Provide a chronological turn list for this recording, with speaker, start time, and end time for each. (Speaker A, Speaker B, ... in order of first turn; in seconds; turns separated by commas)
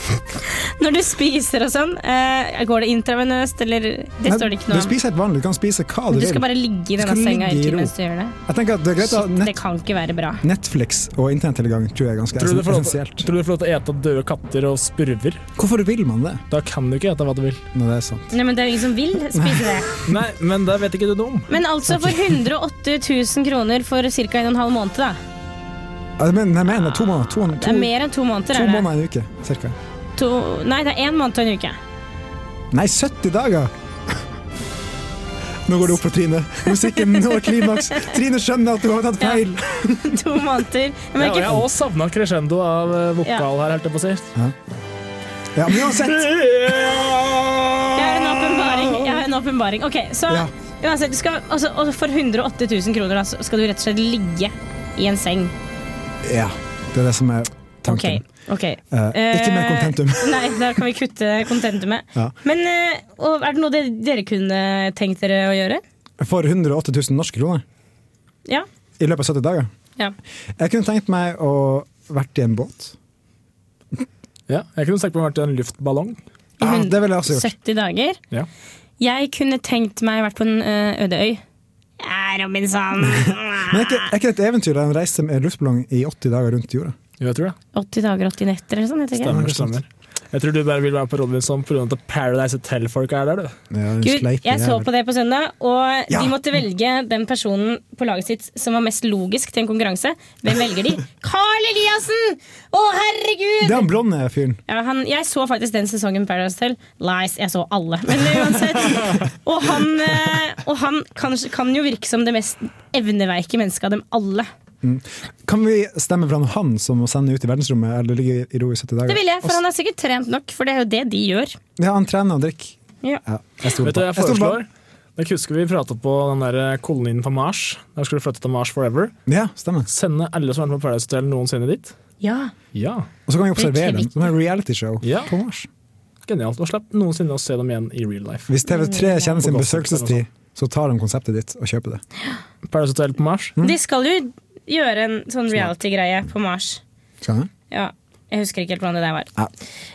Speaker A: 0.3-4.9, Speaker B: 4.2-7.9, Speaker A: 6.1-8.3, Speaker B: 8.5-9.6, Speaker A: 9.0-10.4, Speaker B: 10.4-13.3, Speaker C: 12.3-15.4, Speaker B: 15.6-16.4, Speaker C: 16.5-17.6, Speaker B: 17.7-18.3, Speaker A: 18.3-19.9, Speaker B: 19.3-19.9, Speaker C: 20.1-21.5, Speaker A: 21.5-25.2, Speaker B: 21.9-22.4, Speaker B: 26.2-27.9, Speaker A: 27.5-28.9, Speaker B: 28.5-29.8, Speaker A: 30.1-31.8, Speaker B: 32.7-33.7, Speaker B: 35.6-40.2, Speaker A: 36.9-38.1, Speaker A: 40.0-41.6, Speaker C: 41.2-44.3, Speaker B: 45.5-46.3, Speaker C: 45.9-49.1, Speaker A: 48.0-55.5, Speaker B: 56.2-58.2, Speaker A: 57.9-65.8, Speaker B: 58.9-60.8, Speaker B: 66.2-67.6, Speaker B: 69.0-69.7, Speaker B: 70.6-73.0, Speaker C: 74.5-76.2, Speaker B: 76.6-77.5, Speaker A: 76.6-78.2, Speaker A: 79.0-81.4, Speaker A: 82.0-84.1, Speaker B: 83.0-87.0, Speaker C: 87.2-87.5, Speaker A: 87.7-89.3, Speaker C: 89.2-93.5, Speaker B: 89.2-89.8, Speaker B: 93.7-94.9, Speaker A: 94.0-103.9, Speaker B: 96.1-96.4, Speaker B: 103.6-104.6, Speaker A: 104.7-114.5, Speaker B: 114.8-119.6, Speaker A: 119.1-121.6, Speaker B: 121.8-124.6, Speaker C: 123.8-129.1, Speaker B: 129.3-129.9, Speaker C: 129.9-131.9, Speaker A: 132.2-132.5, Speaker C: 132.7-133.1, Speaker B: 133.3-135.7, Speaker A: 133.6-134.2, Speaker C: 135.0-135.3, Speaker C: 136.3-138.5, Speaker B: 138.5-142.0, Speaker A: 138.7-139.3, Speaker C: 139.4-140.2, Speaker C: 142.6-143.6, Speaker A: 143.6-146.8, Speaker B: 147.2-147.5, Speaker A: 147.7-149.3